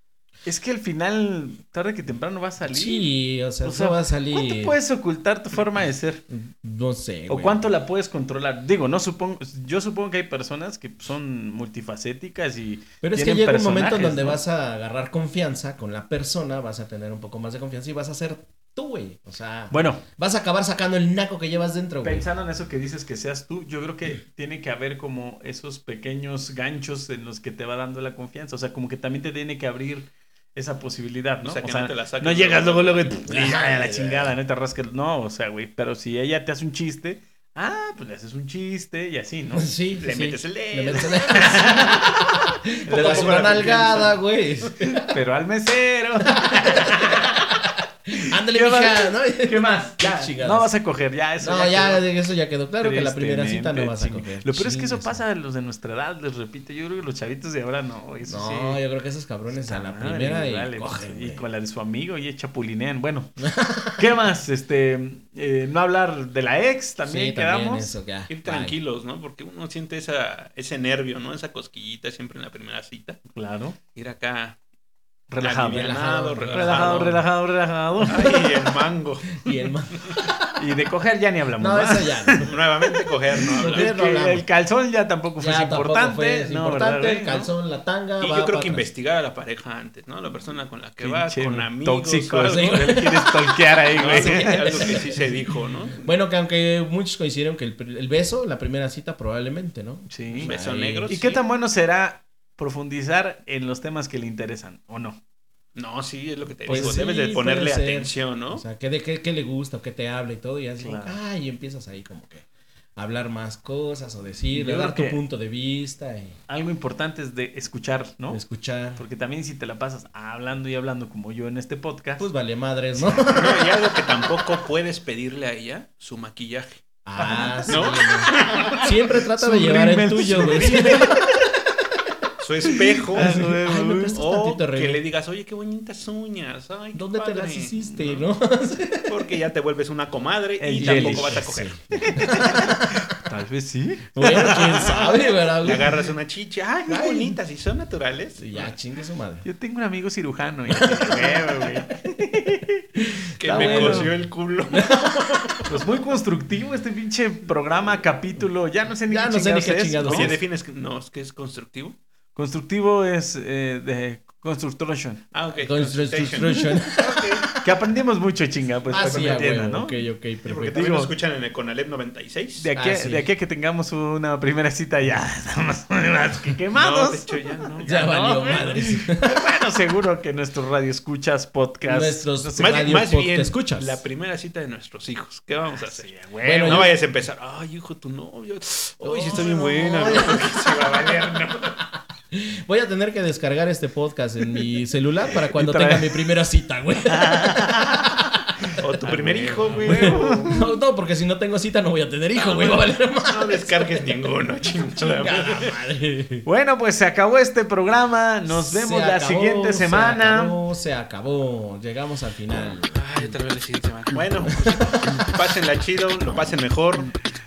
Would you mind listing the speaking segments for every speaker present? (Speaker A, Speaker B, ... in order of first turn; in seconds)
Speaker A: 0.4-3.1, 3.6-6.2, 7.3-14.4, 19.7-20.0, 22.0-39.7, 41.0-42.2, 42.9-44.1, 45.0-47.5, 48.1-52.0, 52.8-58.8, 59.6-67.9, 73.3-73.8, 75.3-78.3, 80.6-82.5, 83.6-87.5, 91.0-95.1, 100.1-100.5, 101.1-105.2, 106.7-107.0, 110.8-111.2, 114.5-115.2, 116.5-118.4, 119.0-122.2, 127.2-131.3, 133.1-134.2, 140.6-145.2, 149.4-152.8, 153.4-154.1, 155.7-160.3, 162.3-165.2, 167.6-170.1, 170.7-171.1, 172.6-183.1, 185.7-186.9, 195.3-196.3, 197.1-200.7, 206.4-210.6
Speaker B: 2.6-4.8, 6.3-7.6, 13.0-22.3, 33.3-34.3, 39.5-45.1, 46.3-50.7, 51.4-55.2, 58.2-61.5, 63.5-64.0, 67.0-68.8, 75.7-77.0, 78.0-78.5, 79.4-80.5, 81.6-82.5, 83.4-84.4, 85.4-88.9, 92.4-95.5, 96.0-101.1, 106.7-112.4, 113.0-116.4, 118.3-119.0, 122.2-123.9, 127.0-131.2, 132.7-135.0, 136.9-139.2, 140.8-142.7, 144.1-145.9, 146.9-147.4, 148.4-149.4, 150.9-151.2, 153.0-154.1, 154.7-155.7, 159.1-160.4, 165.6-167.7, 168.9-170.7, 172.7-173.3, 177.8-179.3, 181.8-184.0, 186.4-186.9, 189.0-190.9, 192.3-198.4, 199.8-204.2, 205.0-206.4, 208.5-213.3, 214.4-215.3
Speaker C: 31.4-33.2, 40.0-42.1, 42.9-44.1, 68.3-73.2, 73.9-74.6, 75.4-77.2, 78.0-79.4, 82.4-83.9, 88.2-92.8, 93.9-96.0, 100.4-101.4, 105.7-108.6, 123.3-126.8, 127.7-128.9, 130.3-131.1, 132.4-133.4, 134.1-138.2, 139.1-142.6, 144.2-148.7, 153.4-155.8, 160.0-161.9, 165.3-167.5, 168.9-169.3, 170.4-172.7, 176.7-177.9, 182.6-186.1, 186.6-191.8, 198.8-200.5, 202.3-205.7, 212.9-217.2